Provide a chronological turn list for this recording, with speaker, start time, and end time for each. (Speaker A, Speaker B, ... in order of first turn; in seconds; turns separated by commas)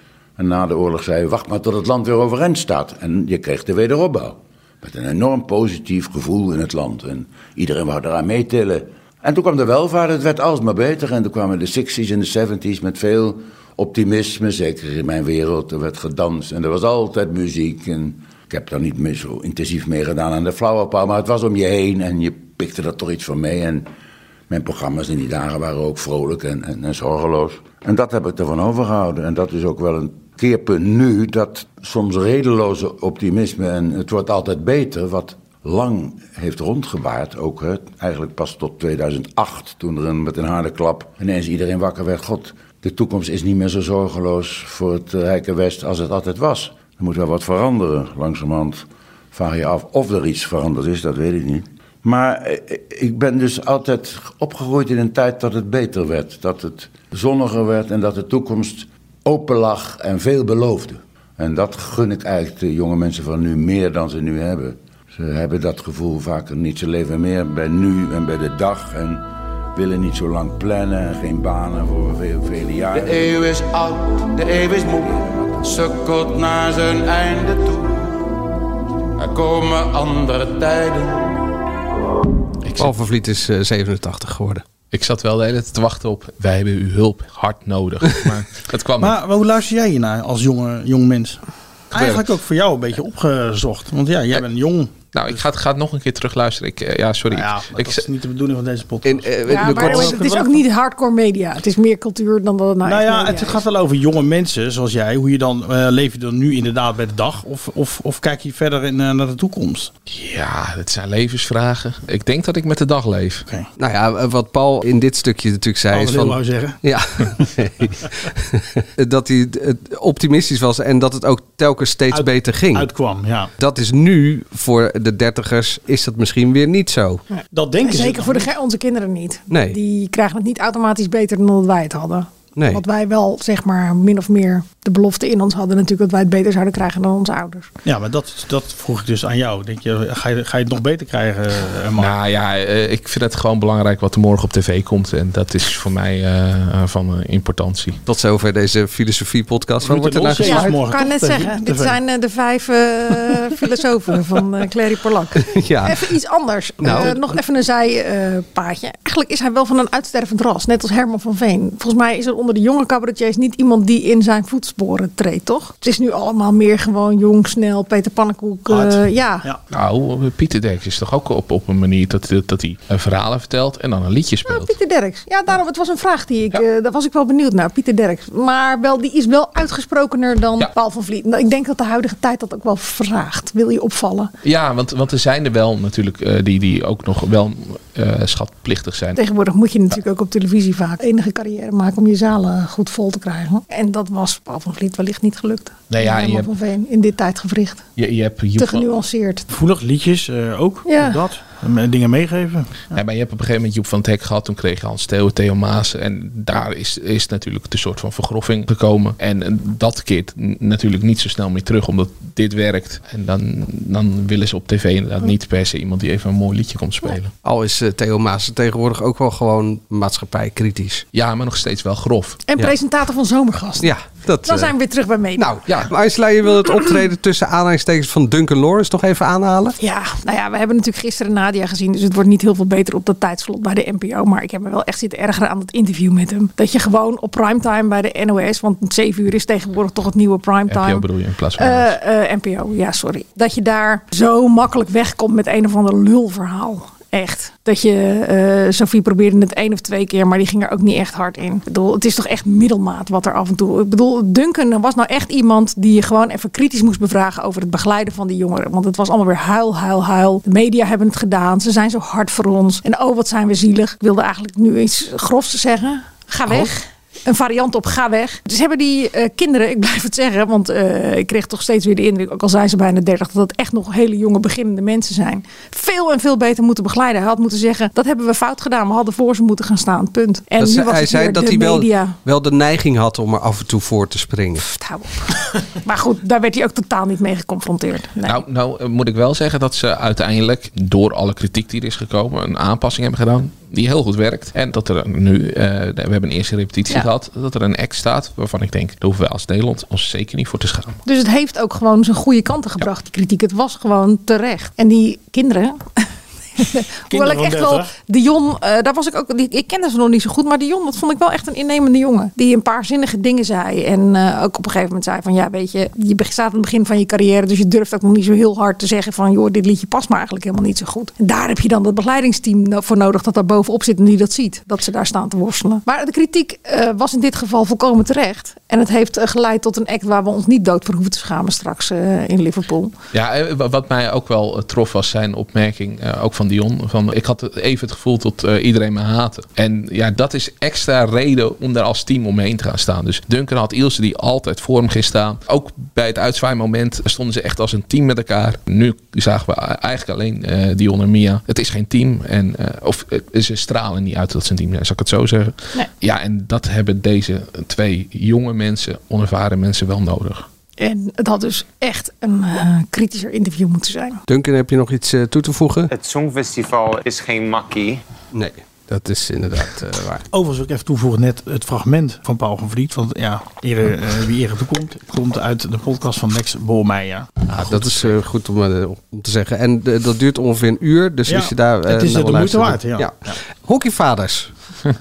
Speaker A: 0.4-23.9, Speaker A: 24.5-73.4, Speaker B: 72.9-78.1, Speaker B: 79.2-81.4, Speaker C: 82.6-82.9, Speaker D: 82.8-84.6, Speaker C: 84.9-89.2, Speaker E: 89.0-91.4, Speaker E: 91.9-95.4, Speaker C: 95.1-98.0, Speaker E: 97.3-100.6, Speaker D: 99.0-100.2, Speaker F: 99.5-103.6, Speaker E: 102.8-109.9, Speaker C: 110.1-113.5, Speaker D: 113.8-122.9, Speaker E: 115.9-116.8, Speaker E: 122.1-123.5, Speaker D: 123.6-127.2, Speaker F: 127.3-137.7, Speaker E: 127.5-128.5, Speaker D: 129.5-129.8, Speaker D: 132.6-132.8, Speaker E: 137.8-142.1, Speaker C: 142.0-148.0, Speaker D: 148.1-150.7, Speaker E: 149.8-152.0, Speaker F: 150.4-169.5, Speaker D: 155.5-156.0, Speaker D: 156.8-157.1, Speaker E: 156.9-157.2, Speaker E: 168.7-169.6, Speaker C: 169.7-174.7, Speaker F: 174.5-184.3, Speaker C: 184.4-189.2, Speaker F: 189.2-197.8, Speaker C: 195.9-196.5, Speaker C: 198.0-198.9, Speaker F: 198.6-199.4, Speaker E: 199.5-202.9, Speaker F: 200.9-201.2, Speaker C: 202.9-217.3, Speaker D: 217.4-221.0, Speaker C: 221.1-222.4, Speaker F: 222.5-223.9, Speaker D: 223.8-224.8, Speaker F: 224.4-225.5, Speaker D: 225.4-229.8, Speaker F: 229.8-241.1, Speaker C: 240.7-242.0, Speaker F: 241.6-282.2, Speaker D: 280.6-284.6, Speaker F: 284.6-288.4, Speaker C: 288.2-301.0, Speaker F: 301.1-306.1, Speaker F: 306.6-332.9, Speaker E: 307.1-307.9, Speaker C: 333.1-360.5, Speaker F: 360.8-364.2, Speaker D: 364.3-365.9, Speaker G: 365.9-368.0, Speaker D: 368.3-370.2, Speaker E: 370.3-377.8, Speaker D: 377.5-384.5, Speaker E: 381.3-383.4